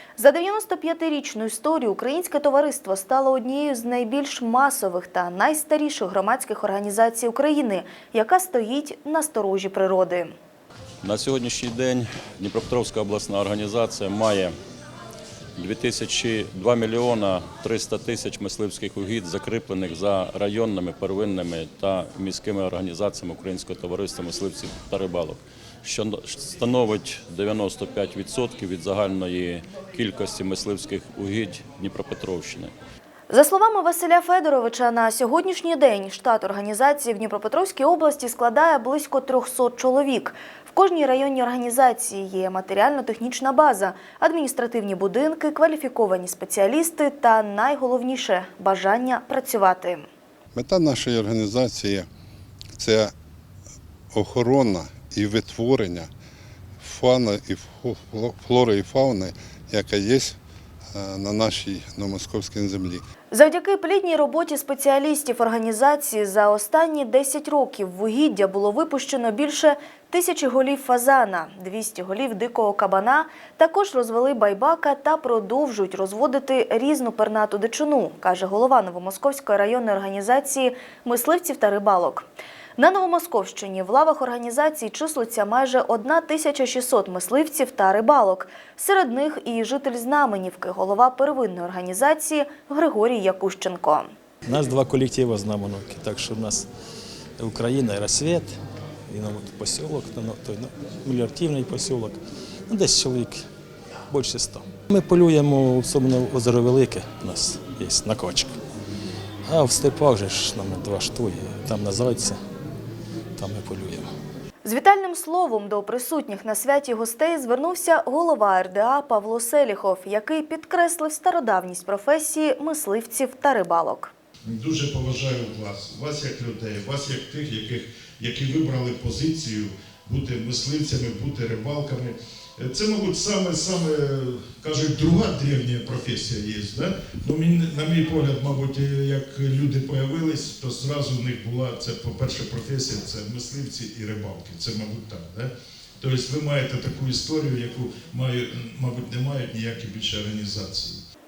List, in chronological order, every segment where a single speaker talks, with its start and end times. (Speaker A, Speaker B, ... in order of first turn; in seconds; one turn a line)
Speaker A: 0.2-10.3
Speaker B: 11.0-14.5
Speaker B: 15.6-32.7
Speaker A: 33.3-50.0
Speaker C: 50.5-52.1
Speaker C: 52.8-53.1
Speaker C: 54.1-56.1
Speaker C: 56.8-60.4
Speaker C: 60.9-63.0
Speaker A: 63.3-82.2
Speaker A: 82.8-94.1
Speaker D: 94.5-96.7
Speaker D: 97.4-103.5
Speaker D: 104.1-108.6
Speaker D: 109.5-112.4
Speaker D: 113.4-114.1
Speaker A: 114.6-124.1
Speaker E: 124.5-151.0